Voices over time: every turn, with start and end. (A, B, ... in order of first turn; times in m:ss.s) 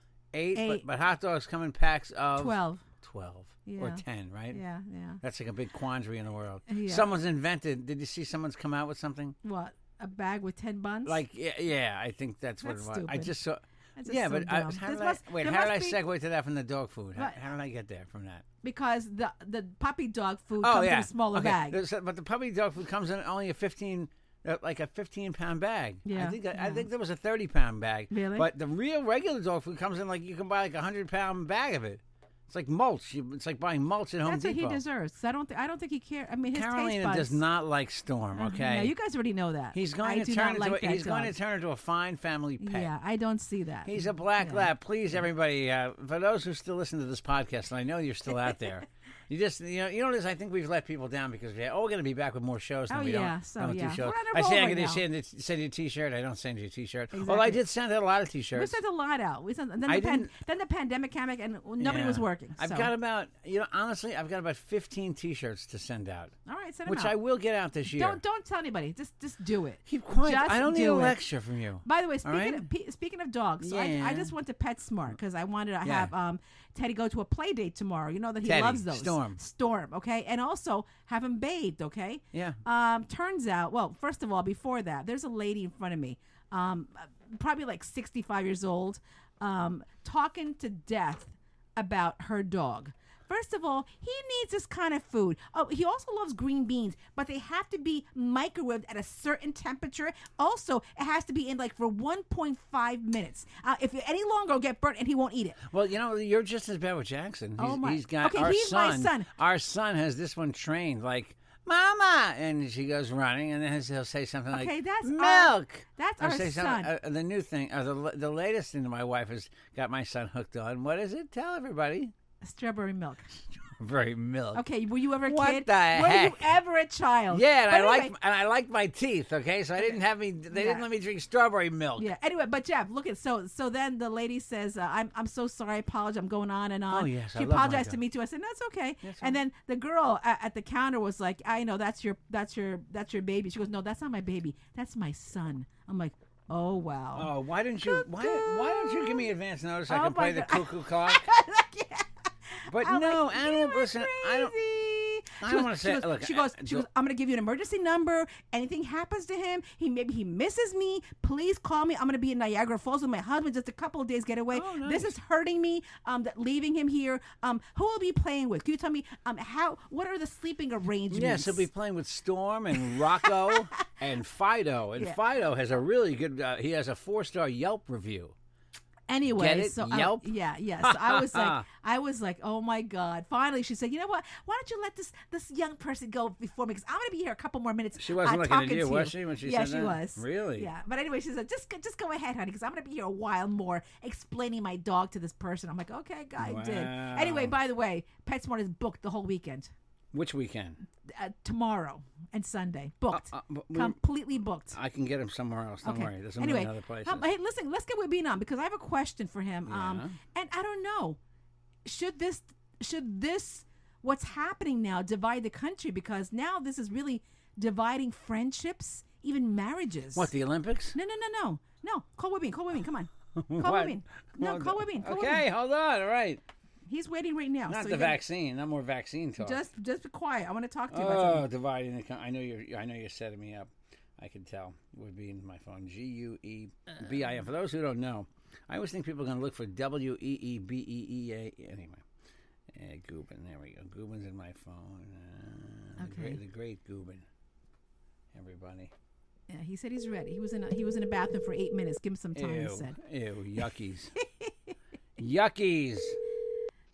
0:00.3-0:04.6 A
0:00.6-0:00.8 B
0:02.4-0:02.8 B
0:03.7-0:05.2 B
0:05.2-0:09.4 A
0:06.7-0:07.1 B
0:09.4-0:11.2 B
0:11.1-0:18.4 A
0:12.6-0:13.3 B
0:14.0-0:16.0 B
0:18.6-0:21.8 B
0:20.6-0:34.8 A
0:26.0-0:26.9 B
0:28.1-0:28.5 B
0:34.2-0:37.4 B
0:36.5-0:38.9 A
0:38.4-0:41.3 B
0:39.7-0:42.9 A
0:42.6-0:44.7 B
0:43.9-0:58.8 A
0:52.9-0:55.0 B
0:57.1-0:57.6 B
0:58.6-1:02.9 B
0:59.9-1:00.3 A
1:01.8-1:08.2 A
1:06.5-1:07.2 B
1:07.9-1:11.2 B
1:09.9-1:12.7 A
1:11.8-1:45.6 B
1:13.6-1:14.3 A
1:15.8-1:16.1 A
1:18.4-1:19.4 A
1:22.3-1:22.6 A
1:45.7-2:02.1 A
1:47.6-1:49.3 B
1:54.5-1:56.9 B
2:02.4-2:03.4 B
2:03.6-2:04.6 A
2:04.6-2:08.1 B
2:05.2-2:06.5 A
2:07.3-2:12.1 A
2:10.5-2:10.8 B
2:12.0-2:27.3 B
2:16.9-2:18.0 A
2:19.0-2:19.4 A
2:27.2-2:31.3 A
2:27.8-2:29.3 B
2:29.9-2:51.7 B
2:32.7-2:34.6 A
2:35.4-2:36.9 A
2:44.5-2:45.2 A
2:51.1-2:58.4 A
2:59.1-3:19.7 B
2:59.3-3:00.3 A
3:00.8-3:01.6 A
3:08.0-3:10.7 A
3:16.4-3:17.6 A
3:20.1-3:20.8 A
3:21.0-3:24.8 B
3:23.1-3:24.0 A
3:24.7-3:27.2 A
3:25.8-3:31.2 B
3:29.7-3:30.2 A
3:31.8-3:40.3 B
3:40.2-3:41.0 A
3:40.9-3:45.5 B
3:43.4-3:46.4 A
3:46.9-3:48.2 B
3:47.7-3:49.6 A
3:49.4-3:51.4 B
3:50.9-4:02.0 A
4:02.7-4:07.2 A
4:06.0-4:06.4 B
4:08.3-4:08.9 A
4:09.5-4:13.0 B
4:12.4-4:14.1 A
4:14.2-4:14.7 B
4:15.2-4:16.2 A